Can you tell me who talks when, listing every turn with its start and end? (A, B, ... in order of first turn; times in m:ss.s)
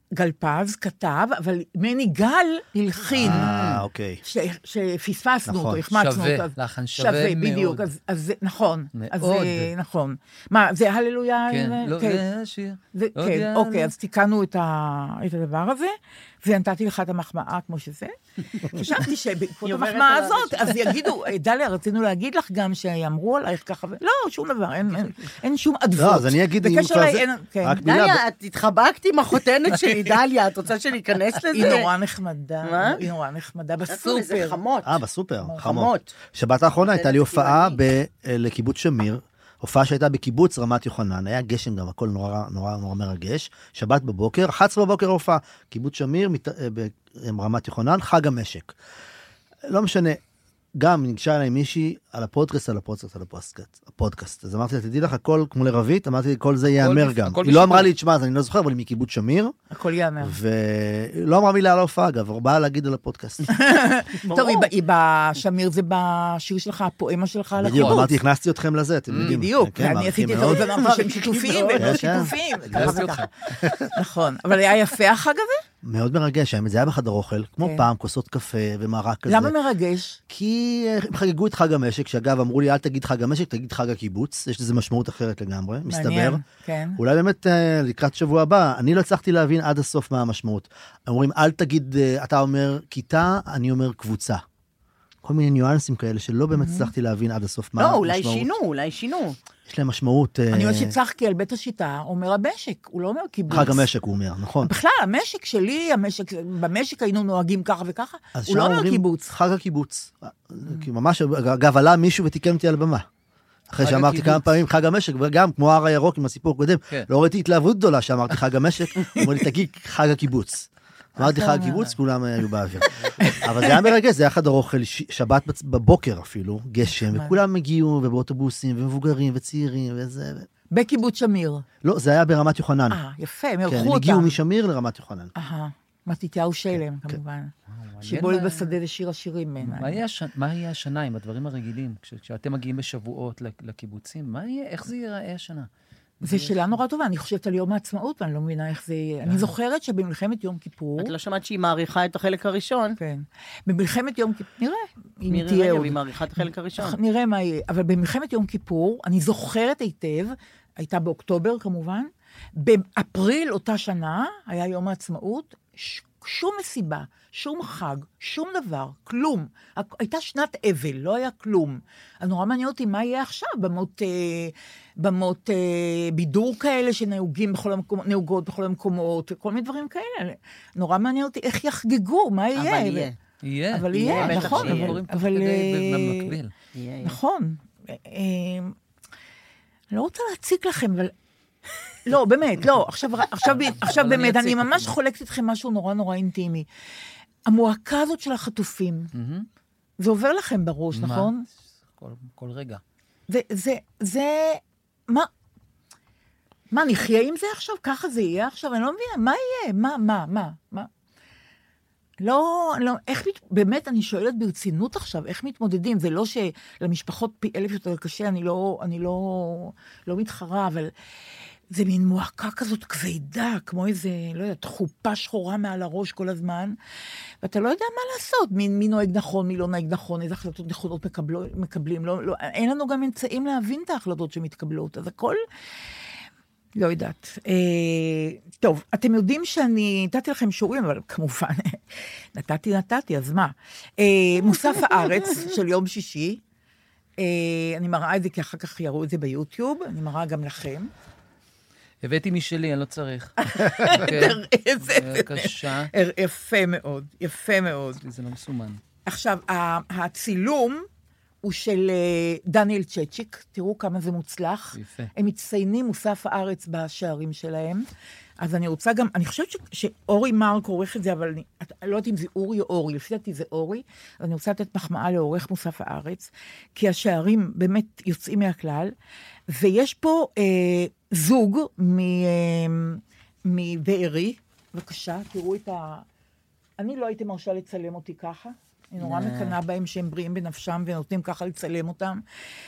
0:00.2-0:03.5 A
0:03.1-0:04.2 B
0:03.2-0:03.8 C
0:04.2-0:12.2 A
0:05.5-0:05.8 B
0:05.9-0:07.9 C
0:09.0-0:09.7 C
0:11.5-0:13.9 C
0:13.0-0:27.8 A
0:19.6-0:20.9 D
0:26.0-0:28.2 B
0:27.8-0:31.9 D
0:31.5-0:34.6 A
0:32.6-0:33.0 D
0:33.9-0:35.0 D
0:34.8-0:48.8 B
0:35.5-0:36.1 D
0:36.9-0:37.8 D
0:49.7-0:50.2 B
0:50.8-0:59.6 B
0:56.8-0:57.9 C
0:59.7-1:00.4 A
1:00.2-1:03.5 B
1:03.5-1:08.1 A
1:04.3-1:04.7 D
1:07.6-1:13.9 B
1:07.7-1:08.1 C
1:09.1-1:09.4 C
1:09.2-1:13.3 A
1:11.5-1:12.0 D
1:12.7-1:13.8 C
1:13.9-1:15.6 A
1:15.8-1:19.5 B
1:19.3-1:20.2 A
1:20.3-1:26.4 B
1:25.9-1:27.0 A
1:27.0-1:34.4 B
1:35.2-1:38.5 B
1:36.6-1:36.9 A
1:37.8-1:39.4 D
1:39.7-1:41.0 B
1:40.5-1:43.9 A
1:43.5-1:44.7 B
1:44.6-1:49.3 A
1:48.4-1:53.1 B
1:53.7-2:10.5 B
1:53.8-1:54.4 C
2:01.2-2:01.9 A
2:03.0-2:03.3 C
2:03.2-2:03.8 A
2:07.1-2:07.4 A
2:10.7-2:11.6 A
2:11.8-2:13.0 B
2:12.9-2:14.4 A
2:13.6-2:15.3 B
2:15.4-2:17.5 A
2:17.7-2:18.8 C
2:18.0-2:20.0 A
2:19.6-2:25.7 C
2:26.2-2:26.8 C
2:26.2-2:31.1 A
2:29.2-2:29.5 C
2:31.0-2:33.0 D
2:33.0-3:03.1 A
2:35.3-2:37.0 D
3:02.6-3:03.1 D
3:03.4-3:06.5 C
3:03.7-3:06.3 A
3:04.0-3:05.0 D
3:06.8-3:07.2 D
3:07.0-3:08.8 A
3:09.9-3:11.1 A
3:12.0-3:16.7 A
3:13.5-3:15.0 C
3:17.5-3:19.1 A
3:19.1-3:19.5 C
3:20.0-3:21.5 A
3:20.9-3:22.8 C
3:23.3-3:25.3 A
3:26.7-3:30.9 A
3:32.2-3:40.9 A
3:41.7-3:46.8 A
3:47.4-3:55.4 A
3:56.8-4:01.8 A
4:02.4-4:06.4 A
4:07.2-4:10.9 A
4:12.0-4:15.9 C
4:13.5-4:18.0 A
4:18.0-4:18.8 C
4:19.0-4:20.9 A
4:21.4-4:27.9 A
4:24.8-4:25.1 C
4:28.4-4:38.9 A
4:39.5-4:46.0 A
4:46.8-4:52.2 A
4:49.0-4:49.6 D